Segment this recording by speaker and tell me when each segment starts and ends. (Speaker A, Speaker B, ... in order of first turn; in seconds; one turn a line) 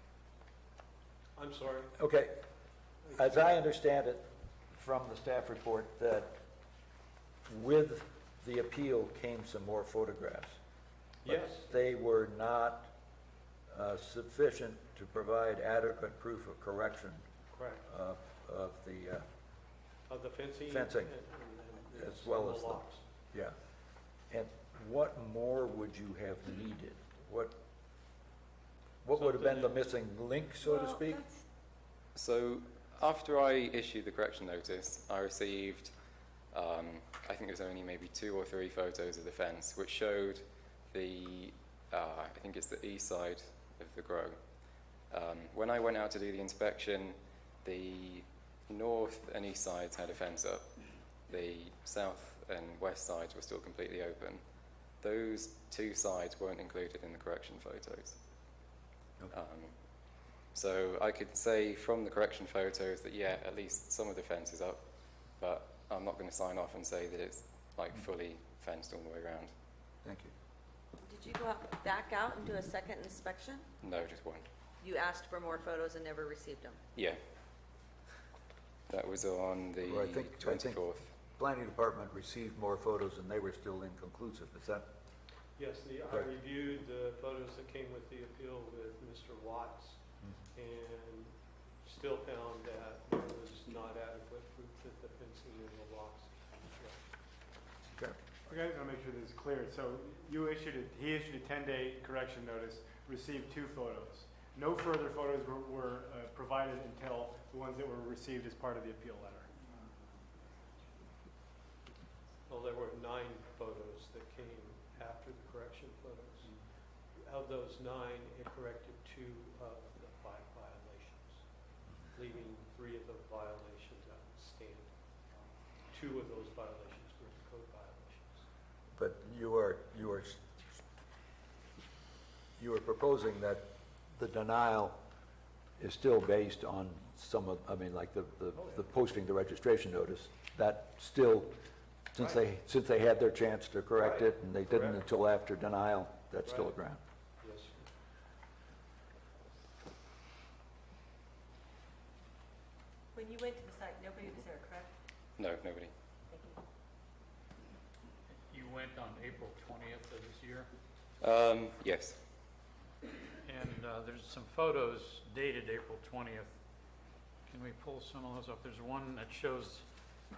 Speaker A: 1.4-1.9
Speaker B: 2.0-2.4
Speaker B: 3.1-6.3
Speaker B: 7.5-10.6
Speaker A: 11.2-11.7
Speaker B: 11.2-12.9
Speaker B: 13.7-17.2
Speaker A: 17.5-17.9
Speaker B: 17.9-19.2
Speaker A: 20.1-23.0
Speaker B: 20.7-21.1
Speaker B: 22.0-23.6
Speaker B: 24.3-27.5
Speaker B: 29.0-31.3
Speaker A: 29.1-29.8
Speaker C: 32.1-35.9
Speaker C: 36.5-54.4
Speaker C: 55.0-58.2
Speaker C: 59.3-64.8
Speaker C: 65.3-69.5
Speaker B: 70.0-70.3
Speaker D: 71.0-73.7
Speaker C: 73.8-74.5
Speaker D: 74.8-76.8
Speaker C: 78.9-81.1
Speaker B: 79.8-80.8
Speaker B: 81.3-84.8
Speaker A: 85.5-90.0
Speaker A: 90.5-97.1
Speaker E: 98.5-109.5
Speaker A: 112.5-116.5
Speaker A: 117.1-121.4
Speaker A: 122.1-124.9
Speaker A: 125.9-128.4
Speaker B: 128.9-130.4
Speaker B: 132.6-135.0
Speaker B: 135.8-141.5
Speaker A: 138.5-138.8
Speaker B: 142.1-147.0
Speaker A: 143.9-145.0
Speaker A: 146.4-146.8
Speaker A: 147.4-147.8
Speaker C: 155.4-155.9
Speaker F: 158.3-160.7
Speaker C: 161.2-162.2
Speaker F: 163.4-166.6
Speaker F: 167.5-169.8